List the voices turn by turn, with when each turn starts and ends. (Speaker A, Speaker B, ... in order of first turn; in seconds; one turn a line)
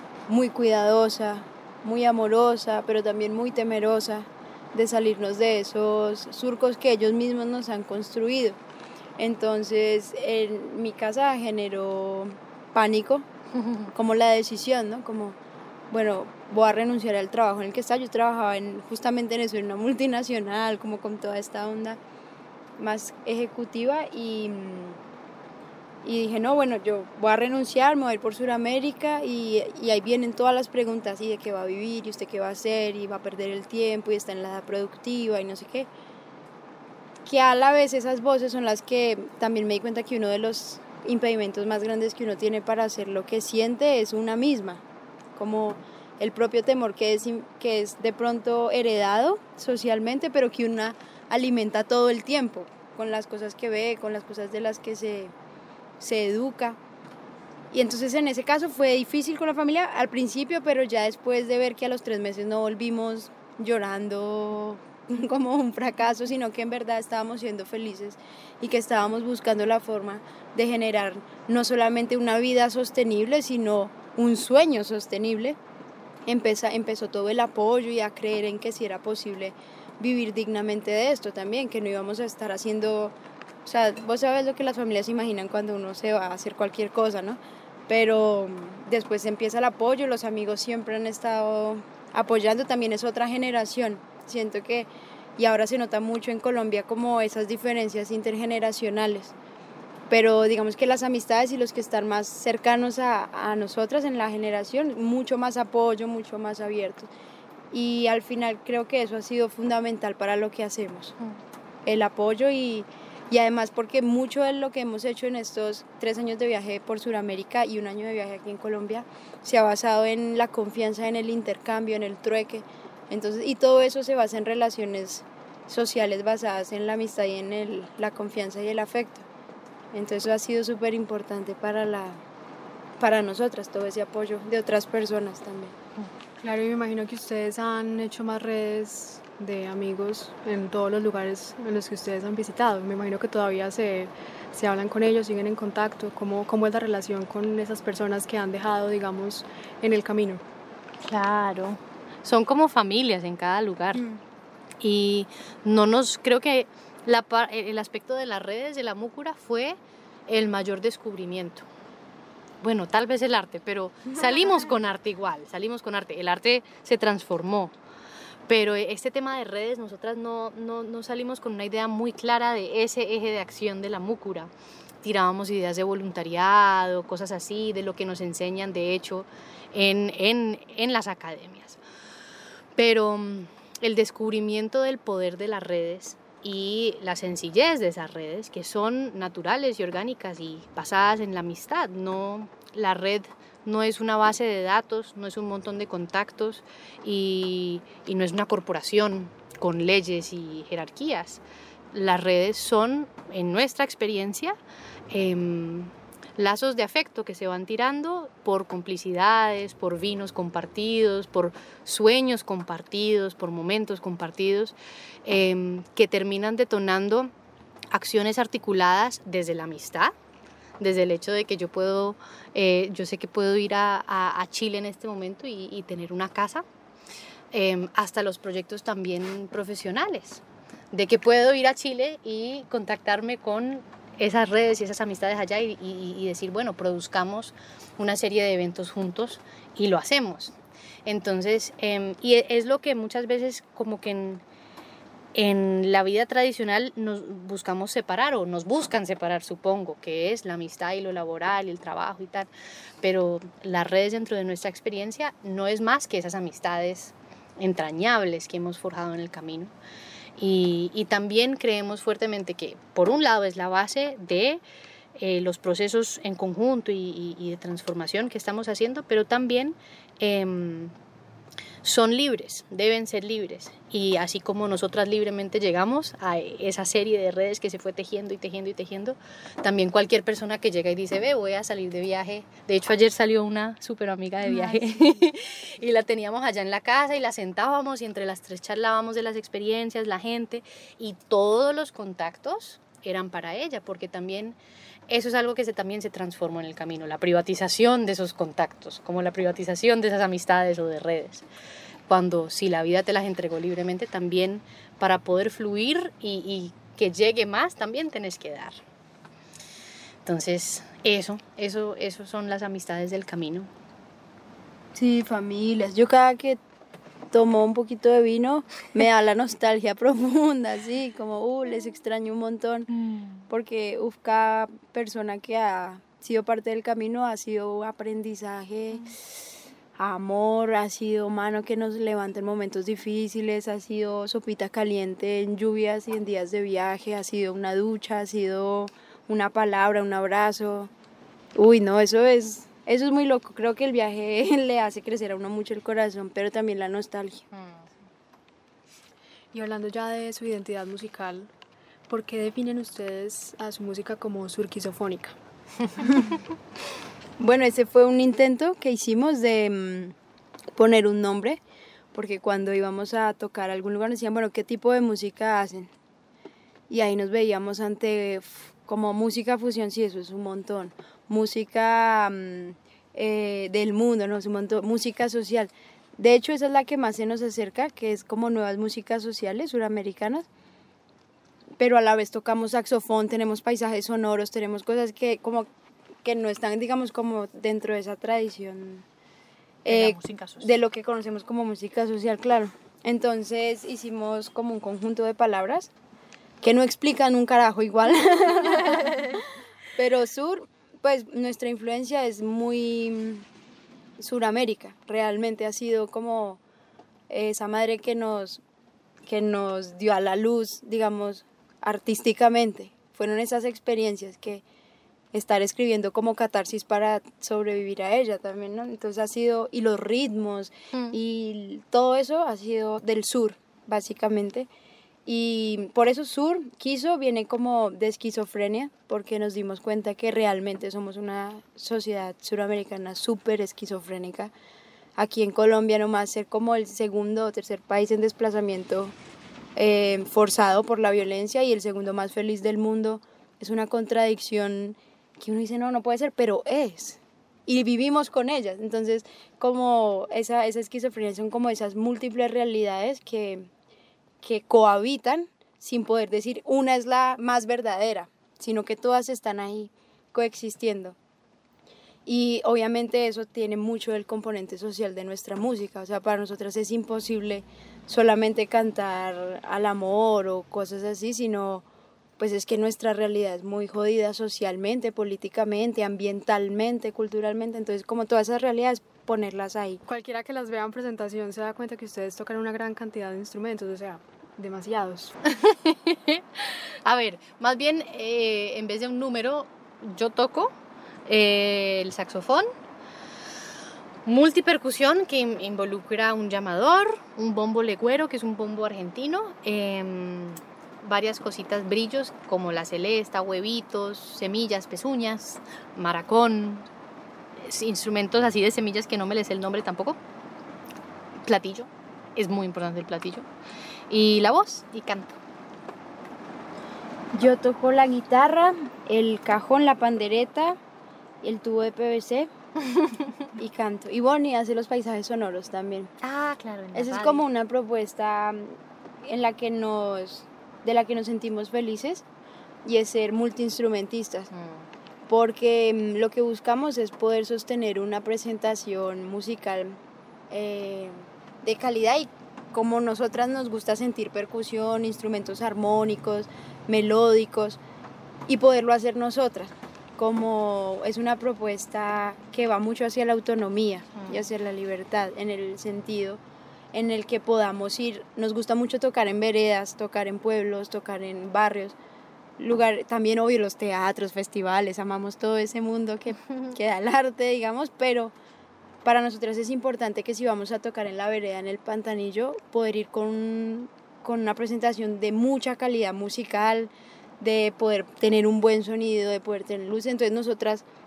Speaker A: 0.3-8.6
Speaker A: 9.2-13.2
Speaker A: 13.9-15.4
Speaker A: 15.9-22.0
Speaker A: 22.8-25.0
Speaker A: 26.0-35.9
Speaker A: 37.2-44.8
Speaker A: 45.3-55.3
Speaker A: 56.0-56.8
Speaker A: 57.7-75.6
Speaker A: 76.2-83.1
Speaker A: 83.6-99.3
Speaker A: 100.1-107.1
Speaker A: 107.7-111.2
Speaker A: 111.8-129.2
Speaker A: 129.9-132.2
Speaker A: 133.0-135.8
Speaker B: 136.4-150.4
Speaker C: 151.0-154.1
Speaker C: 154.8-161.7
Speaker C: 162.6-167.8
Speaker C: 168.5-174.5
Speaker C: 175.0-181.8
Speaker C: 182.8-201.4
Speaker C: 201.9-204.6
Speaker C: 205.1-217.3
Speaker C: 217.9-220.1
Speaker C: 220.8-226.6
Speaker C: 227.5-244.4
Speaker C: 245.3-252.5
Speaker C: 253.0-259.7
Speaker C: 260.4-264.6
Speaker C: 265.1-270.9
Speaker C: 271.8-294.6
Speaker A: 284.6-285.1
Speaker C: 295.1-301.4
Speaker C: 302.1-308.8
Speaker C: 310.2-313.7
Speaker A: 314.9-316.6
Speaker A: 317.3-322.9
Speaker C: 323.0-323.4
Speaker A: 323.5-329.1
Speaker A: 330.0-340.9
Speaker A: 341.5-347.4
Speaker B: 349.5-351.5
Speaker B: 352.1-355.4
Speaker A: 357.4-360.1
Speaker A: 360.7-361.6
Speaker A: 362.1-365.9
Speaker A: 366.9-380.5
Speaker A: 381.8-385.7
Speaker A: 386.2-389.0
Speaker A: 389.8-395.9
Speaker C: 389.9-390.7
Speaker A: 396.6-399.2
Speaker C: 399.0-399.4
Speaker A: 399.9-403.4
Speaker A: 404.2-406.6
Speaker A: 407.3-408.6
Speaker A: 409.2-414.6
Speaker A: 415.3-424.7
Speaker A: 425.2-434.5
Speaker A: 435.2-439.1
Speaker A: 439.8-453.7
Speaker A: 454.4-461.1
Speaker A: 462.2-471.8
Speaker A: 472.4-480.0
Speaker B: 480.1-485.3
Speaker C: 485.4-490.7
Speaker C: 491.3-492.7
Speaker C: 494.2-506.9
Speaker C: 507.6-510.2
Speaker C: 511.4-513.5
Speaker C: 514.1-515.4
Speaker A: 517.3-520.8
Speaker A: 521.4-522.5
Speaker C: 522.9-523.3
Speaker A: 523.6-526.1
Speaker C: 526.2-527.4
Speaker A: 526.9-532.2
Speaker A: 532.8-534.5
Speaker C: 534.5-534.9
Speaker A: 535.3-540.0
Speaker A: 540.5-547.8
Speaker A: 548.5-556.4
Speaker C: 554.2-554.4
Speaker A: 556.9-562.0
Speaker A: 562.6-568.3
Speaker A: 569.0-580.8